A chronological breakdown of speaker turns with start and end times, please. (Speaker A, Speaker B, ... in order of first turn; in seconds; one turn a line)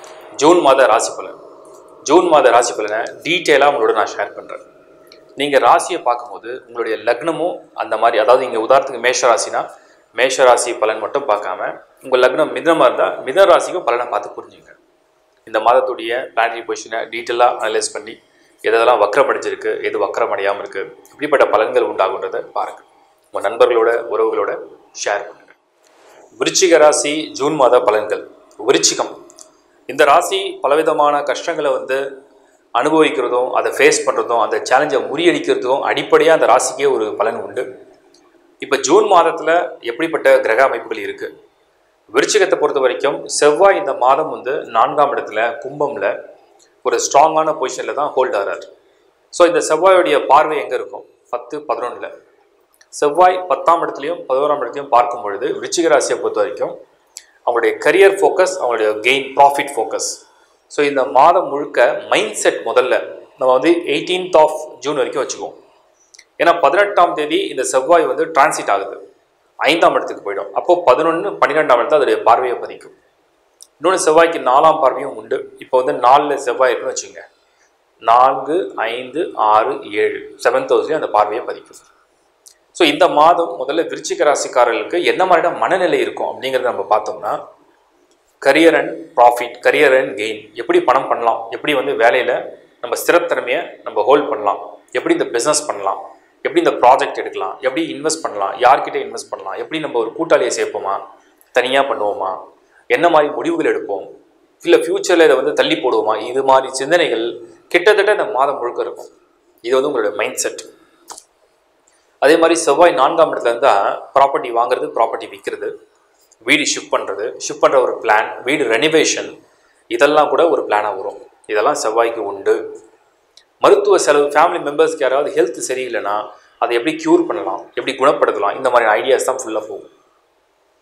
Speaker A: 0.4-1.3
Speaker A: 2.0-4.6
Speaker A: 5.4-9.6
Speaker A: 10.2-14.8
Speaker A: 15.4-25.5
Speaker A: 26.4-29.1
Speaker A: 29.9-32.0
Speaker A: 32.8-37.6
Speaker A: 38.6-41.3
Speaker A: 42.1-46.1
Speaker A: 46.8-48.6
Speaker A: 49.3-52.1
Speaker A: 52.9-56.7
Speaker A: 57.5-60.2
Speaker A: 60.7-65.5
Speaker A: 66.4-69.0
Speaker A: 69.6-72.9
Speaker A: 73.8-77.2
Speaker A: 78.0-81.9
Speaker A: 82.7-87.4
Speaker A: 88.4-101.0
Speaker A: 101.5-102.3
Speaker A: 102.9-104.1
Speaker A: 104.6-109.1
Speaker A: 109.6-110.7
Speaker A: 112.2-115.7
Speaker A: 116.4-119.3
Speaker A: 119.9-122.6
Speaker A: 123.6-129.9